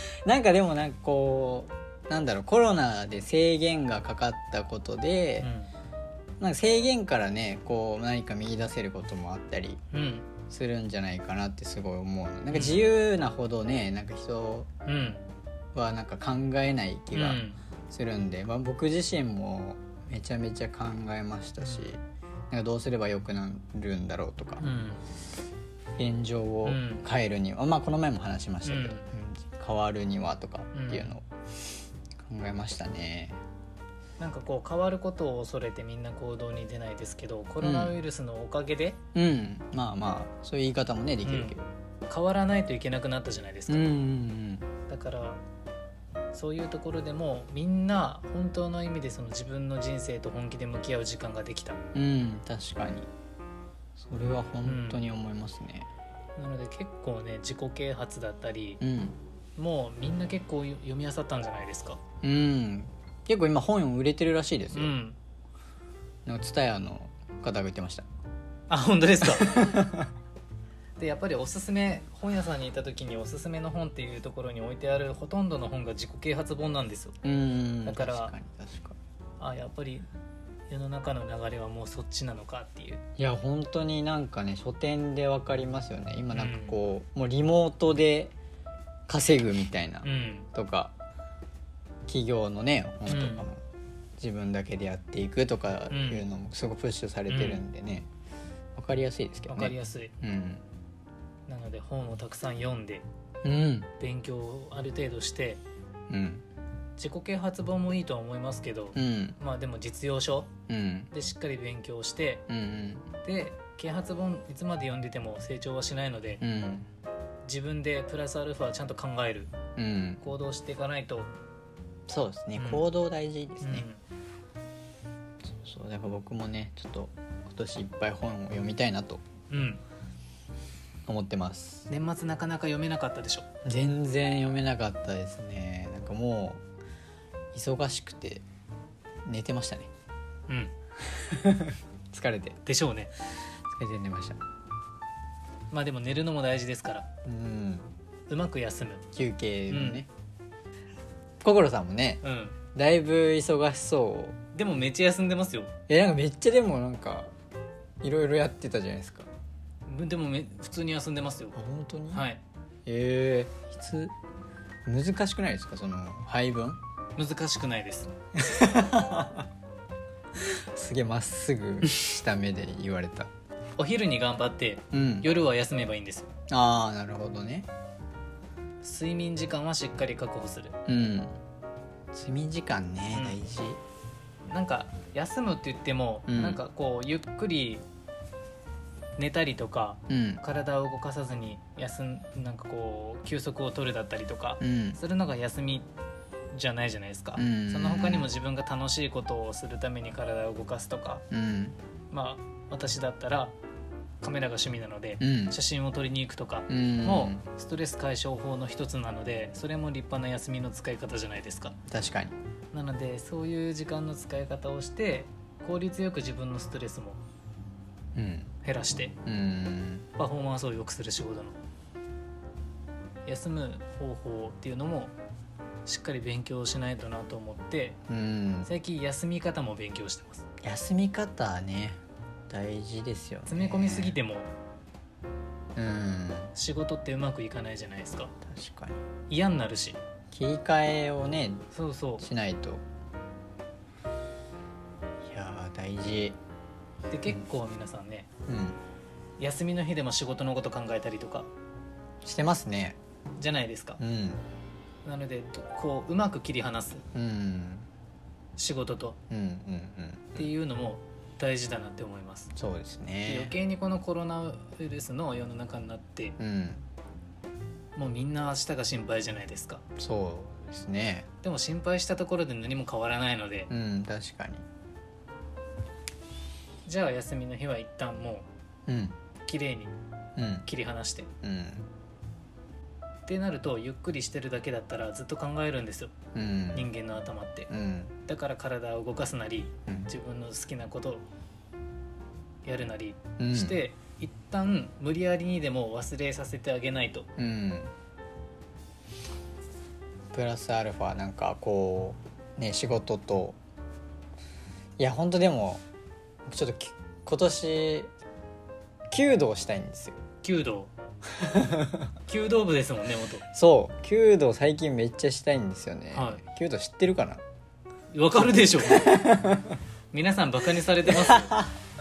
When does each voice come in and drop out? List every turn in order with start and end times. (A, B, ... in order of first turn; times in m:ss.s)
0:00.2-0:05.5 A
0:05.4-0:05.7 B
0:06.4-0:09.8 A
0:09.9-0:10.3 B
0:10.5-0:14.7 A
0:12.5-0:12.8 B
0:14.8-0:15.2 B
0:15.7-0:22.0 A
0:17.1-0:17.6 B
0:21.6-0:21.9 B
0:22.5-0:24.6 A
0:24.6-0:25.0 B
0:26.0-0:31.2 A
0:26.6-0:27.0 B
0:28.6-0:29.1 B
0:30.7-0:31.1 B
0:32.2-0:33.4 A
0:34.2-0:39.0 B
0:37.6-0:38.0 A
0:39.1-0:41.7 A
0:41.2-0:41.6 B
0:42.1-0:43.9 B
0:43.7-0:44.6 A
0:44.9-0:45.4 B
0:46.3-0:51.8 B
0:51.9-0:53.1 A
0:54.0-0:55.9 A
0:54.6-0:55.1 B
0:56.4-0:58.8 B
0:58.8-0:59.2 A
0:59.6-1:02.0 B
1:02.2-1:04.9 A
1:04.7-1:05.2 B
1:06.2-1:08.1 A
1:08.7-1:09.7 B
1:09.2-1:10.1 A
1:11.0-1:17.1 B
1:17.2-1:19.0 A
1:17.8-1:18.3 B
1:19.4-1:20.1 B
1:20.7-1:23.0 B
1:23.2-1:28.3 A
1:26.3-1:26.8 B
1:29.1-1:30.9 A
1:30.0-1:30.5 B
1:32.1-1:33.6 A
1:33.1-1:33.5 B
1:34.2-1:38.1 A
1:35.9-1:36.2 B
1:37.3-1:37.6 B
1:38.8-1:40.6 A
1:39.5-1:40.1 B
1:41.5-1:43.0 B
1:43.4-1:43.9 A
1:44.0-1:45.6 B
1:46.1-1:46.4 A
1:47.0-1:50.5 B
1:48.9-1:49.4 A
1:50.7-1:51.1 A
1:51.1-1:52.4 B
1:52.5-1:53.1 A
1:53.2-1:56.4 B
1:56.4-1:56.9 A
1:57.4-1:59.5 B
1:59.8-2:00.2 A
2:00.2-2:01.3 B
2:02.1-2:03.9 A
2:02.6-2:02.8 B
2:03.6-2:04.0 B
2:05.5-2:09.2 A
2:09.5-2:09.8 B
2:11.0-2:11.9 A
2:11.9-2:13.4 B
2:13.6-2:16.6 A
2:17.5-2:18.4 A
2:19.2-2:19.9 A
2:21.0-2:22.6 A
2:22.6-2:23.1 B
2:23.7-2:24.4 A
2:25.7-2:27.1 B
2:27.2-2:27.9 A
2:28.3-2:29.0 B
2:29.1-2:30.1 A
2:29.7-2:30.0 B
2:31.4-2:32.2 A
2:32.2-2:32.6 B
2:32.7-2:34.4 A
2:34.5-2:35.7 B
2:35.9-2:37.3 A
2:38.0-2:39.3 A
2:39.9-2:41.6 B
2:41.5-2:42.2 A
2:42.1-2:42.4 B
2:42.8-2:44.1 A
2:44.8-2:46.8 A
2:47.2-2:48.1 B
2:48.3-2:49.5 A
2:50.4-2:53.3 A
2:53.8-2:56.3 B
2:54.9-2:55.3 A
2:56.5-2:57.7 A
2:58.8-3:00.7 B
3:00.9-3:01.4 A
3:02.1-3:03.8 A
3:03.1-3:03.4 B
3:04.5-3:07.8 B
3:06.3-3:06.6 A
3:09.2-3:15.9 B
3:10.1-3:10.4 A
3:14.6-3:15.0 A
3:16.5-3:21.2 B
3:17.4-3:18.3 A
3:21.3-3:21.8 A
3:22.1-3:23.5 B
3:24.2-3:31.7 B
3:25.2-3:25.6 A
3:26.7-3:27.4 A
3:31.9-3:32.3 A
3:32.7-3:37.2 B
3:38.1-3:38.6 A
3:38.6-3:39.2 B
3:39.2-3:40.1 A
3:40.2-3:41.6 B
3:43.2-3:45.1 B
3:45.8-3:48.0 B
3:48.1-3:48.7 A
3:48.6-3:50.4 B
3:50.6-3:54.2 A
3:53.5-3:54.5 B
3:55.7-3:56.5 A
3:56.5-3:58.3 B
3:58.4-3:59.0 A
3:59.3-4:00.0 B
4:00.3-4:01.7 A
4:01.7-4:02.2 B
4:02.2-4:02.8 A
4:05.2-4:06.4 A
4:07.1-4:08.3 B
4:08.5-4:08.8 A
4:09.4-4:11.5 B
4:12.2-4:13.0 A
4:13.4-4:14.0 B
4:14.0-4:14.4 A
4:15.0-4:17.0 B
4:17.1-4:17.9 A
4:18.6-4:19.2 B
4:19.3-4:20.5 A
4:20.4-4:22.5 B
4:22.6-4:23.5 A
4:23.2-4:26.4 B
4:26.4-4:26.9 A
4:28.0-4:29.8 B
4:30.0-4:31.3 A
4:31.4-4:33.7 B
4:33.7-4:34.6 A
4:36.8-4:38.4 B
4:38.9-4:39.2 A
4:39.4-4:39.9 B
4:40.4-4:40.6 A
4:40.6-4:41.3 B
4:41.4-4:41.9 A
4:43.2-4:46.1 B
4:46.3-4:46.9 A
4:46.7-4:47.7 B
4:47.7-4:48.2 A
4:48.3-4:51.2 B
4:49.9-4:50.1 A
4:52.6-4:57.3 B
4:53.4-4:53.8 A
4:57.4-4:57.9 A
5:00.3-5:03.6 A
5:05.0-5:05.8 A
5:06.4-5:08.1 A
5:09.1-5:10.2 A
5:10.4-5:10.9 B
5:11.4-5:12.1 A
5:12.3-5:13.4 B
5:13.5-5:17.4 A
5:16.1-5:16.4 B
5:18.1-5:19.2 B
5:18.8-5:19.8 A
5:20.1-5:21.6 B
5:21.0-5:21.8 A